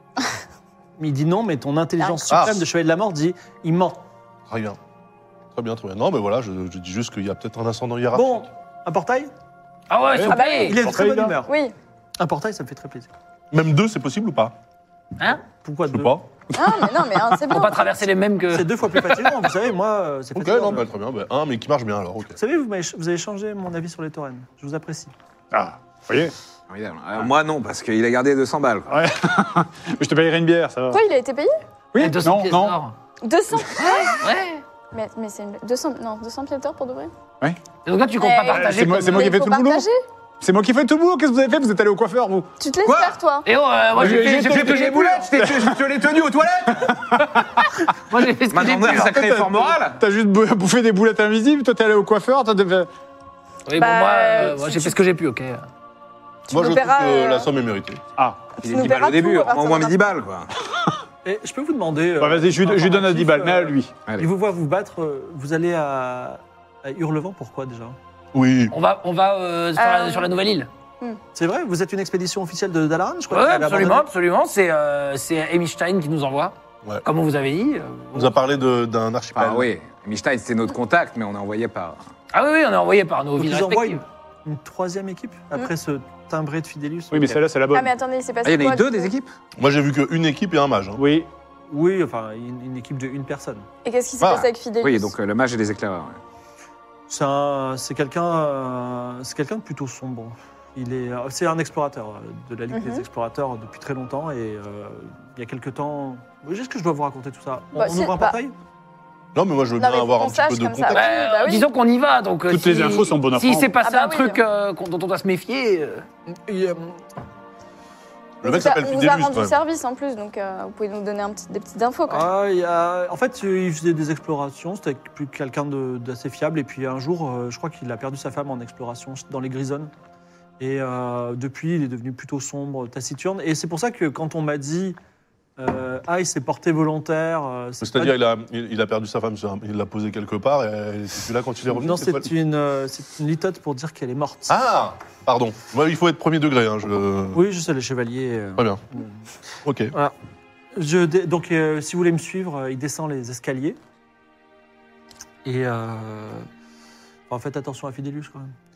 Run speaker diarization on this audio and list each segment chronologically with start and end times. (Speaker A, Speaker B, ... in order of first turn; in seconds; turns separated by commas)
Speaker A: 1.0-4.0, Speaker B: 2.3-2.6, Speaker B: 4.5-4.8, Speaker B: 5.5-8.5, Speaker A: 8.1-9.3, Speaker C: 9.9-10.7, Speaker D: 10.1-11.3, Speaker E: 10.3-11.7, Speaker A: 10.6-11.5, Speaker A: 12.2-13.1, Speaker B: 13.5-14.6, Speaker A: 15.5-16.1, Speaker B: 15.9-16.3, Speaker E: 16.5-17.9, Speaker C: 17.5-18.7, Speaker A: 18.5-20.8, Speaker B: 20.4-22.4, Speaker A: 22.4-25.1, Speaker D: 25.5-26.3, Speaker F: 26.7-28.9, Speaker D: 28.9-31.0, Speaker E: 30.9-31.5, Speaker D: 31.9-32.8, Speaker C: 31.9-32.9, Speaker E: 33.2-34.3, Speaker C: 33.8-34.6, Speaker E: 34.9-37.1, Speaker C: 37.8-39.3, Speaker E: 38.2-40.0, Speaker D: 38.5-39.9, Speaker D: 40.4-42.5, Speaker E: 42.6-43.5, Speaker F: 42.8-43.2, Speaker C: 43.4-45.1, Speaker D: 43.9-45.9, Speaker F: 44.0-47.4, Speaker D: 46.9-47.6, Speaker C: 48.1-49.3, Speaker F: 48.5-50.0, Speaker D: 49.1-52.9, Speaker C: 53.7-55.7, Speaker E: 53.7-55.0, Speaker E: 56.5-57.5, Speaker B: 56.5-58.0, Speaker D: 58.2-58.5, Speaker E: 58.6-60.1, Speaker F: 58.6-60.5, Speaker A: 61.2-68.0, Speaker D: 62.2-63.9, Speaker B: 68.3-68.7, Speaker C: 68.7-70.7, Speaker E: 69.8-70.3, Speaker A: 71.3-74.1, Speaker C: 73.3-78.4, Speaker B: 78.1-79.7, Speaker F: 79.3-82.0, Speaker C: 82.3-84.0, Speaker A: 83.4-87.4, Speaker D: 87.1-87.9, Speaker E: 87.7-89.1, Speaker F: 88.4-89.3, Speaker B: 89.6-91.0, Speaker D: 91.0-91.3, Speaker A: 91.7-93.7, Speaker E: 93.8-95.1, Speaker F: 94.2-96.2, Speaker A: 97.1-108.5, Speaker E: 102.7-103.0, Speaker E: 107.7-108.4, Speaker B: 109.3-111.0, Speaker E: 109.7-111.7, Speaker C: 110.9-116.0, Speaker D: 112.5-113.7, Speaker E: 113.8-114.4, Speaker A: 116.5-117.0, Speaker B: 118.4-119.5, Speaker E: 118.4-122.3, Speaker A: 122.1-129.9, Speaker A: 130.6-135.0, Speaker A: 135.6-138.2, Speaker B: 137.8-142.3, Speaker A: 141.7-144.6, Speaker B: 144.5-147.4, Speaker A: 147.3-149.3, Speaker B: 148.6-148.8, Speaker B: 149.6-149.9, Speaker A: 150.7-153.8, Speaker A: 155.4-156.5, Speaker A: 157.3-158.5